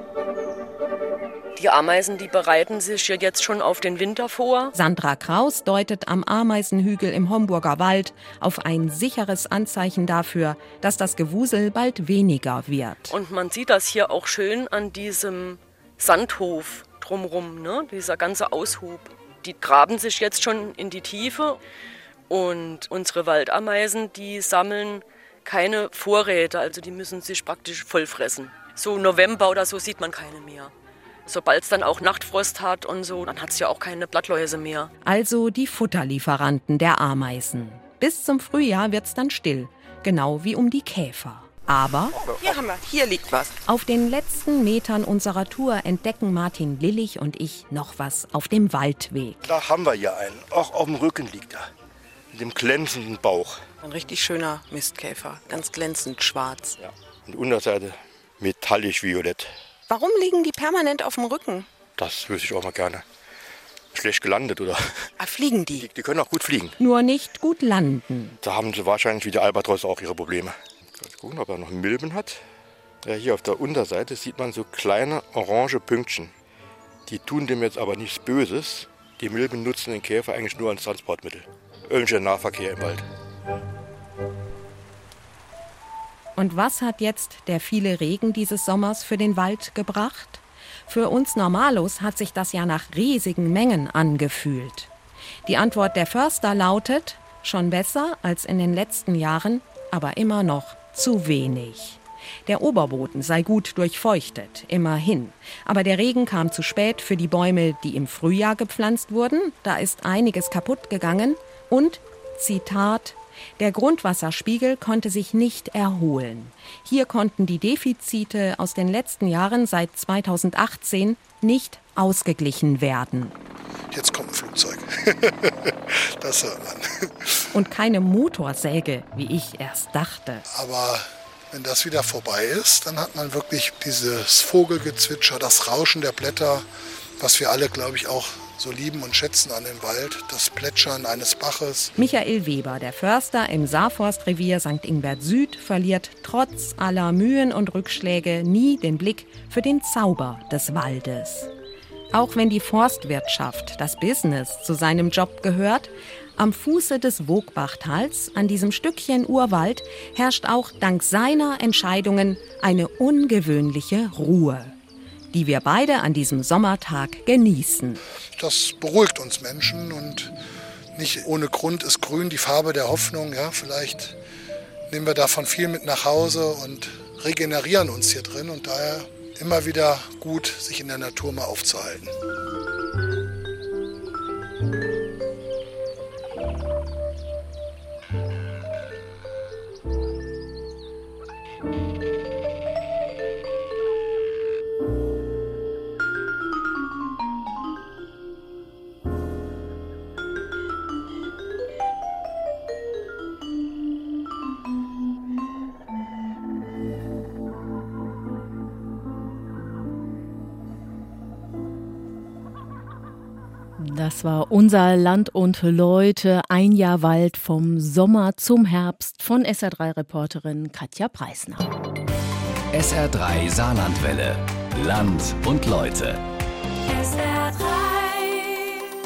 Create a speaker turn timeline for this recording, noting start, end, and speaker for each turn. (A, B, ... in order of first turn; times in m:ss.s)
0:01.6-0:04.7 A
0:04.7-0:13.1 B
0:13.1-0:21.6 A
0:22.3-0:30.7 A
0:31.2-0:34.9 A
0:35.0-0:42.2 B
0:42.2-0:42.6 C
0:42.4-0:43.5 D
0:43.7-0:49.4 B
0:49.4-0:51.7 C
0:52.3-0:53.6 C
0:53.8-0:56.8 D
0:56.8-0:59.5 C
0:59.9-1:01.7 D
1:02.0-1:03.0 C
1:03.9-1:05.1 C
1:05.2-1:05.9 D
1:05.7-1:06.8 C
1:06.8-1:08.4 B
1:08.4-1:12.4 C
1:13.0-1:16.3 C
1:17.1-1:23.0 C
1:26.4-1:34.9 B
1:35.4-2:03.4 B
2:03.9-2:07.5 E
2:07.5-2:10.4 B
2:10.5-2:16.7 E
2:17.2-2:21.9 E
2:22.0-2:31.5 B
2:32.1-2:44.8 B
2:45.3-2:48.0 B
2:48.4-2:50.3 E
2:50.9-2:54.2 E
2:54.9-3:02.1 E
3:33.8-3:41.7 F
3:42.7-3:46.2 G
3:47.1-3:48.1 G